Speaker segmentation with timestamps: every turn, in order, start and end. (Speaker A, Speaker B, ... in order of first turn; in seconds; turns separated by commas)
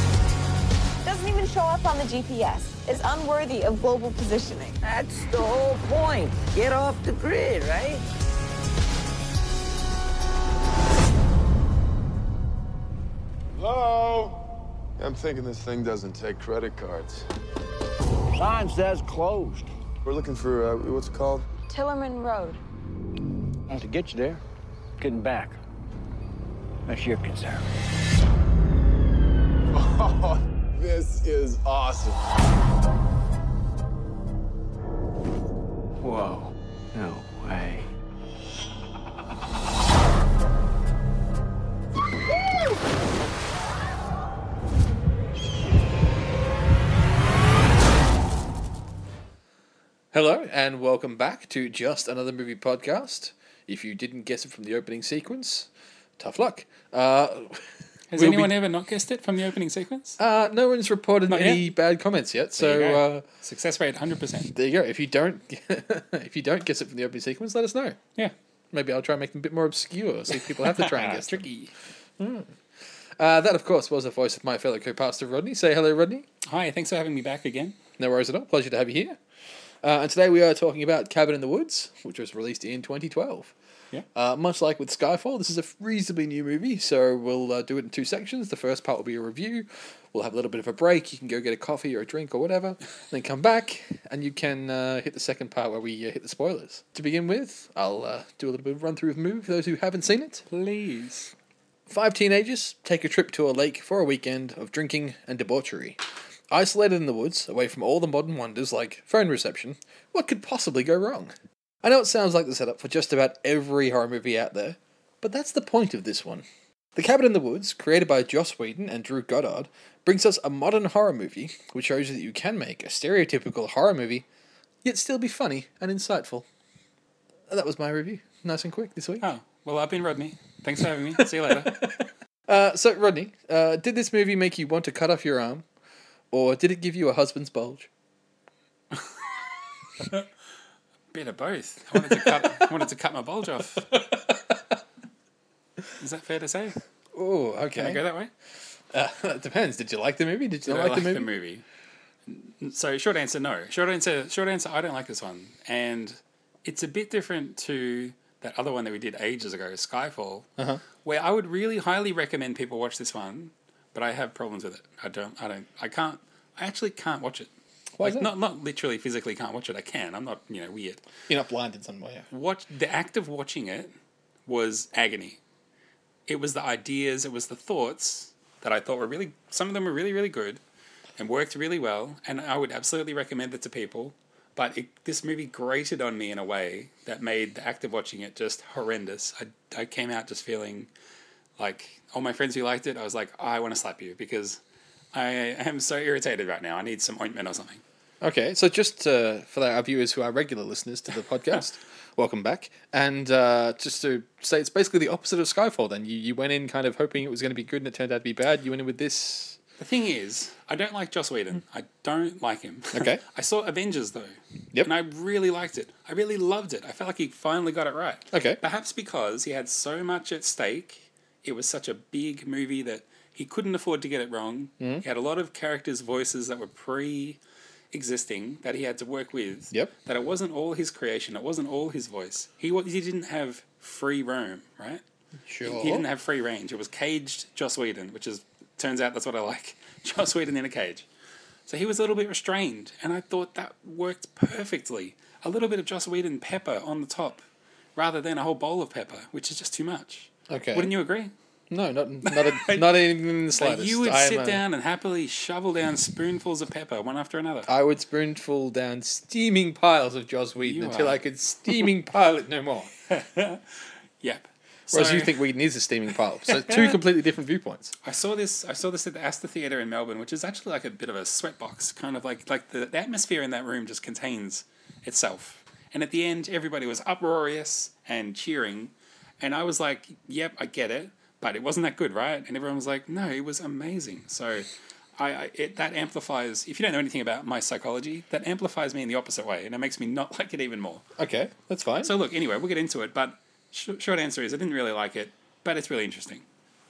Speaker A: 1.0-4.8, Speaker B: 4.8-8.0, Speaker C: 13.5-14.4, Speaker C: 15.0-17.2, Speaker D: 18.3-19.7, Speaker C: 20.0-21.4, Speaker A: 21.7-22.6, Speaker D: 23.7-24.4, Speaker D: 25.0-25.6, Speaker D: 26.9-27.7, Speaker C: 29.7-32.2, Speaker D: 36.0-37.9, Speaker E: 50.1-58.6, Speaker F: 58.1-60.2, Speaker E: 60.2-63.2, Speaker F: 61.3-61.6, Speaker F: 62.6-64.5, Speaker E: 64.5-68.0, Speaker E: 68.7-71.6, Speaker F: 70.3-71.7, Speaker E: 72.2-72.5, Speaker E: 73.2-76.2, Speaker F: 76.4-77.8, Speaker E: 78.0-79.2, Speaker E: 79.8-83.5, Speaker E: 84.1-100.4, Speaker F: 100.5-101.3, Speaker E: 101.9-124.2, Speaker E: 124.8-126.5, Speaker E: 127.5-129.3, Speaker F: 129.2-131.9, Speaker E: 131.2-135.6, Speaker E: 136.3-137.9, Speaker F: 141.1-143.9, Speaker E: 141.9-142.6, Speaker E: 143.9-144.6, Speaker F: 146.0-146.8, Speaker E: 147.1-148.0, Speaker F: 147.7-148.3, Speaker E: 148.9-151.3, Speaker F: 150.6-151.6, Speaker F: 152.3-160.5, Speaker F: 161.0-171.0, Speaker E: 168.0-168.3, Speaker E: 171.3-172.3, Speaker F: 172.3-173.9, Speaker F: 174.5-175.4, Speaker F: 176.3-180.6, Speaker F: 181.2-190.9, Speaker F: 191.6-194.6, Speaker F: 195.1-197.8, Speaker E: 198.2-209.6, Speaker F: 209.8-227.4, Speaker E: 212.9-213.2, Speaker E: 218.3-218.6, Speaker E: 224.8-225.0, Speaker F: 227.9-235.0, Speaker E: 235.5-236.0, Speaker F: 235.6-241.1, Speaker F: 241.7-247.4, Speaker F: 247.9-251.3, Speaker E: 250.5-250.9, Speaker E: 251.7-254.6, Speaker F: 252.2-257.7, Speaker E: 257.7-262.9, Speaker F: 260.6-261.9, Speaker F: 263.1-265.4, Speaker E: 264.9-267.9, Speaker F: 266.5-267.0, Speaker F: 268.0-291.0, Speaker E: 291.2-292.1, Speaker F: 292.0-296.4